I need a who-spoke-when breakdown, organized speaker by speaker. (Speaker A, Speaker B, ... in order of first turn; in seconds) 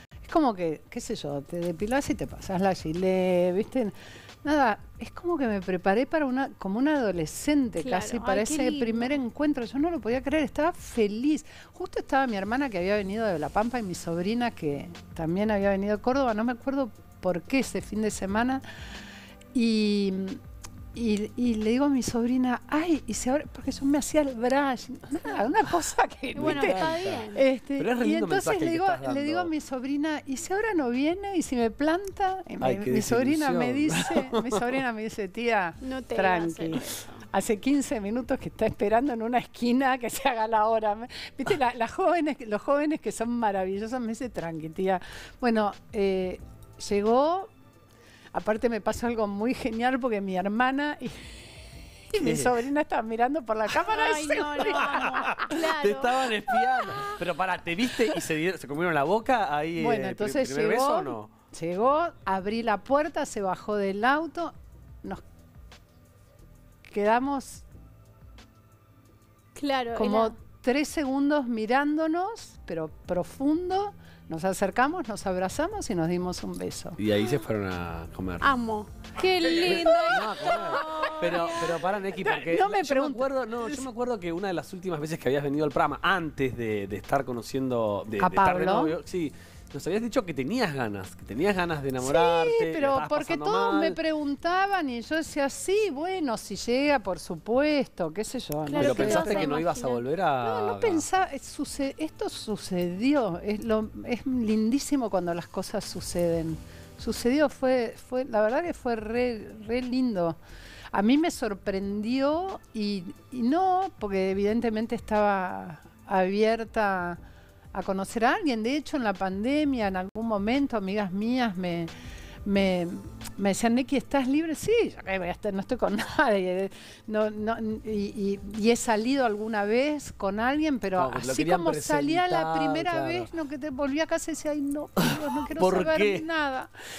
Speaker A: 0.2-18.6, 19.5-20.4, 20.9-47.5, 48.3-51.3, 52.1-55.5, 59.8-65.2, 66.9-67.7, 70.0-77.0, 80.3-83.9, 88.2-89.0, 92.0-99.6, 100.4-110.4, 110.9-117.2, 117.7-121.9, 122.5-136.7
Speaker B: 7.8-9.2, 26.4-27.5, 35.8-37.2, 53.8-57.1, 69.5-70.3, 78.4-81.9, 98.7-100.0
Speaker C: 26.4-27.2, 27.8-29.5, 32.6-34.6, 52.2-52.6, 54.6-61.3, 77.0-78.5, 79.5-94.0, 98.8-101.1, 131.0-133.3, 135.0-136.3